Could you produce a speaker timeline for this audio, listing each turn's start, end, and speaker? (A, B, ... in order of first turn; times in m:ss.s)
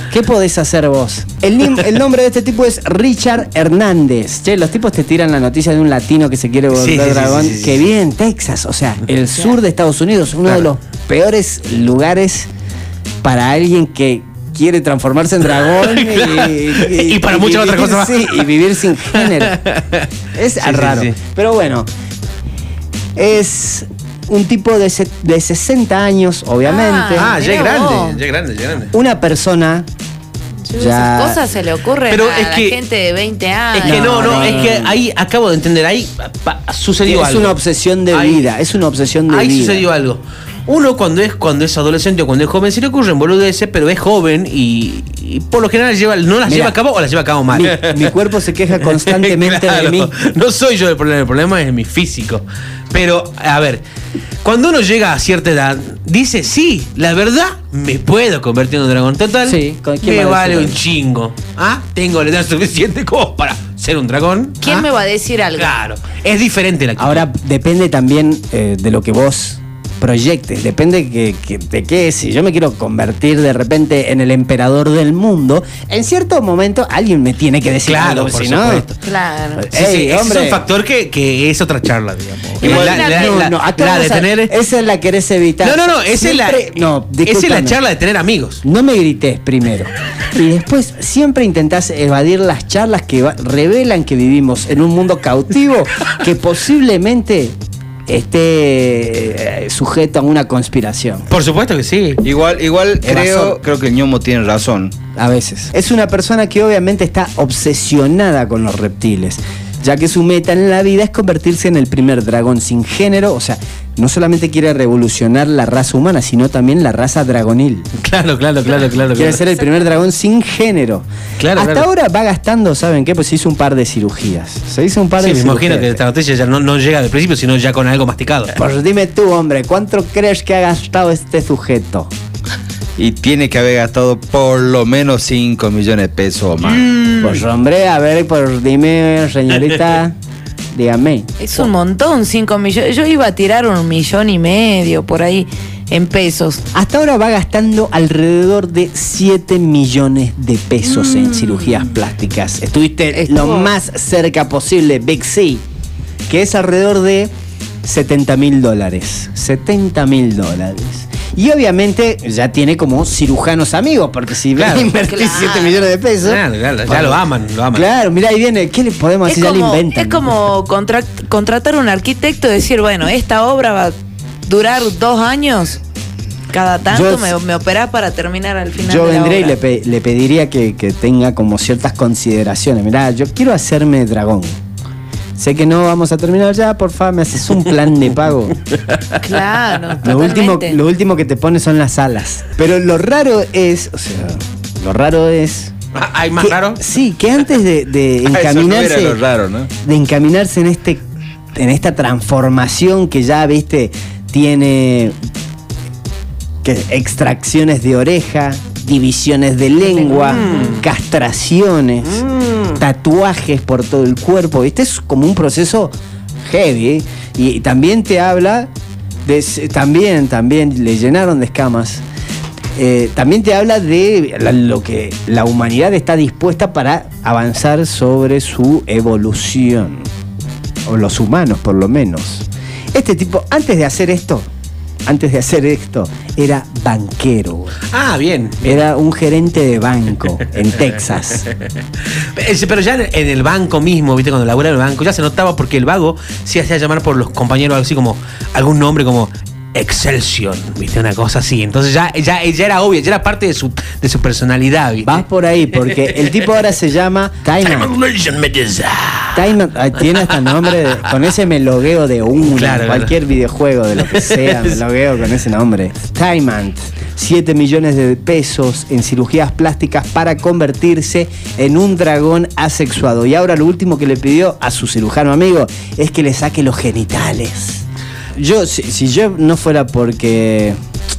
0:00.1-0:12.5 A
0:06.7-0:07.8 B
0:13.2-0:19.6 A
0:15.5-0:18.5 B
0:19.1-0:20.1 B
0:20.4-0:21.9 A
0:20.6-0:21.2 B
0:23.2-0:27.4 A
0:26.6-0:28.2 C
0:27.2-0:28.9 B
0:28.9-0:29.9 A
0:30.7-0:34.3 C
0:30.7-0:31.4 A
0:32.1-0:32.8 B
0:33.7-0:37.6 B
0:33.8-0:35.0 A
0:37.1-0:39.9 A
0:38.1-0:38.5 B
0:39.3-0:48.2 B
0:46.5-0:46.8 A
0:47.5-0:50.1 A
0:48.8-0:53.8 B
0:54.4-1:04.8 B
0:59.4-1:00.8 A
1:04.6-1:05.7 C
1:05.6-1:07.2 B
1:07.0-1:18.9 A
1:17.8-1:19.0 B
1:19.0-1:19.7 C
1:19.6-1:20.6 A
1:19.7-1:24.5 B
1:22.6-1:23.4 C
1:22.6-1:27.8 A
1:25.6-1:28.6 B
1:28.6-1:37.6 A
1:38.1-1:41.3 A
1:41.3-1:42.2 B
1:42.2-1:45.0 D
1:43.0-1:43.6 A
1:45.2-1:57.9 A
1:58.0-1:59.4 B
1:59.2-2:06.0 A
2:01.4-2:01.9 B
2:05.2-2:08.5 B
2:08.6-2:12.1 A
2:13.0-2:16.9 D
2:16.6-2:17.4 B
2:17.2-2:20.2 A
2:20.7-2:21.3 A
2:21.4-2:26.6 C
2:26.7-2:35.6 A
2:31.0-2:31.8 C
2:33.1-2:33.7 C
2:36.3-2:37.3 A
2:37.8-2:47.2 A
2:44.6-2:44.9 B
2:45.0-2:45.9 C
2:46.2-2:47.9 B
2:47.7-2:50.3 A
2:49.2-2:55.8 C
2:56.5-2:59.6 C
2:56.9-2:57.4 A
2:58.8-3:04.5 A
3:05.4-3:08.6 A
3:09.2-3:10.8 C
3:10.0-3:15.7 A
3:15.9-3:16.8 B
3:16.4-3:19.2 A
3:18.2-3:19.7 D
3:19.8-3:21.0 A
3:21.5-3:25.2 A
3:26.6-3:32.2 A
3:30.0-3:30.7 C
3:30.1-3:30.9 B
3:32.0-3:32.8 B
3:32.8-3:35.9 A
3:36.5-3:38.7 A
3:39.3-3:42.0 A
3:42.8-3:50.1 A
3:50.9-3:54.5 A
3:55.1-3:57.8 A
3:57.9-3:58.8 B
3:58.6-4:01.5 A
4:00.8-4:16.5 B
4:15.0-4:17.9 A
4:17.6-4:21.3 B
4:19.4-4:37.8 A
4:22.4-4:23.1 B
4:24.0-4:24.8 B
4:38.4-4:40.8 A